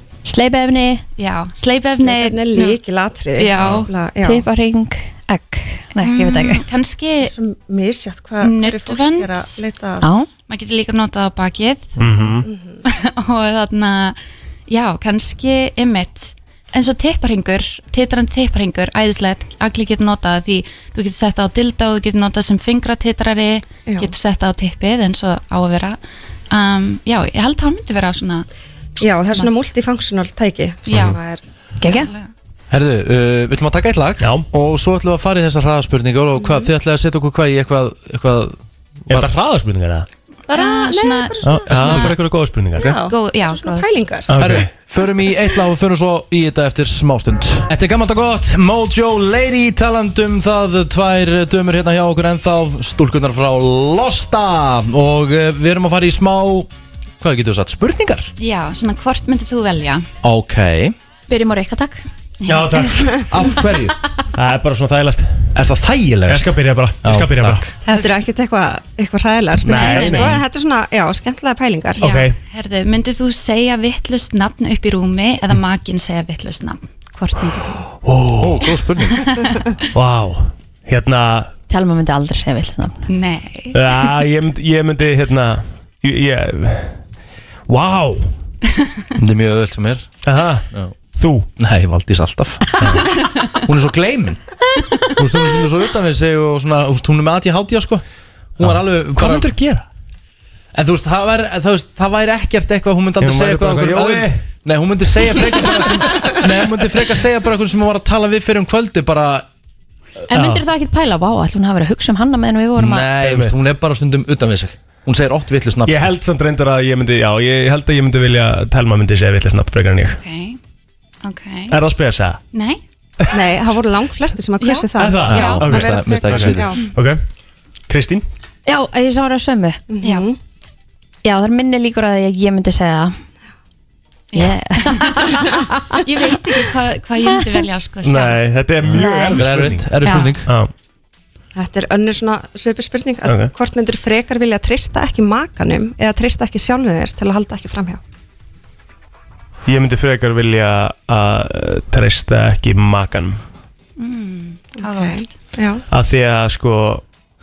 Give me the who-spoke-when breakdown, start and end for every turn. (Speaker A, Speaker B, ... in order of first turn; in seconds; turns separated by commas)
Speaker A: 0.3-1.0, Speaker B: 1.2-2.8, Speaker C: 1.9-4.4, Speaker B: 3.4-3.9, Speaker A: 4.2-6.7, Speaker B: 6.0-7.3, Speaker C: 7.2-10.1, Speaker B: 8.4-9.6, Speaker A: 10.0-10.3, Speaker B: 10.5-12.0, Speaker D: 12.0-12.4, Speaker C: 12.4-12.8, Speaker B: 12.8-26.0, Speaker C: 23.9-24.1, Speaker B: 26.5-28.5, Speaker C: 29.0-31.4, Speaker B: 29.3-29.6, Speaker B: 30.9-31.2, Speaker D: 30.9-31.2, Speaker A: 31.8-32.1, Speaker B: 31.9-32.3, Speaker E: 32.7-38.6, Speaker D: 34.2-34.5, Speaker D: 39.1-40.1, Speaker C: 40.5-42.1, Speaker B: 40.5-42.0, Speaker E: 41.4-42.2, Speaker D: 41.7-42.9, Speaker C: 42.8-44.3, Speaker B: 42.8-43.9, Speaker D: 44.3-44.7, Speaker E: 44.4-56.7, Speaker E: 57.2-58.3, Speaker B: 58.4-60.1, Speaker E: 60.2-61.0, Speaker A: 61.3-62.0, Speaker D: 62.5-63.2, Speaker E: 63.3-64.0, Speaker D: 64.3-65.5, Speaker E: 65.5-67.7, Speaker D: 66.3-67.6, Speaker C: 67.9-72.0, Speaker D: 69.6-70.4, Speaker B: 69.7-70.4, Speaker B: 72.0-77.8, Speaker D: 72.0-72.4, Speaker D: 78.0-78.7, Speaker E: 78.4-79.3, Speaker B: 79.1-79.6, Speaker D: 80.0-81.5, Speaker A: 81.7-83.0, Speaker B: 83.1-83.8, Speaker D: 83.7-87.0, Speaker D: 87.7-88.3, Speaker E: 89.2-90.2, Speaker D: 90.2-91.5, Speaker E: 91.6-92.7, Speaker D: 92.8-93.1, Speaker E: 93.7-94.4, Speaker E: 95.1-98.0, Speaker E: 98.6-99.5, Speaker D: 98.6-99.9, Speaker E: 100.7-109.5, Speaker D: 103.2-104.4, Speaker D: 105.8-106.3, Speaker A: 110.3-113.1, Speaker D: 110.3-110.6, Speaker E: 112.8-116.1, Speaker D: 113.2-113.5, Speaker D: 115.9-120.2, Speaker B: 120.2-120.6, Speaker B: 121.2-121.8, Speaker D: 121.7-122.4, Speaker B: 122.5-122.8, Speaker C: 123.3-126.8, Speaker B: 124.6-125.6, Speaker D: 125.0-127.2, Speaker E: 125.2-126.7, Speaker D: 127.9-128.2, Speaker A: 128.7-129.8, Speaker C: 129.9-130.4, Speaker B: 130.0-130.3, Speaker A: 131.2-133.1, Speaker B: 134.3-135.4, Speaker A: 134.3-136.0, Speaker B: 136.0-138.4, Speaker D: 138.0-139.9, Speaker A: 138.9-139.4, Speaker B: 139.0-139.3, Speaker E: 139.4-140.5, Speaker D: 140.5-140.7, Speaker C: 141.6-148.0, Speaker D: 143.2-143.5, Speaker D: 149.7-153.4, Speaker B: 154.0-155.3, Speaker C: 154.8-155.8, Speaker D: 155.9-157.0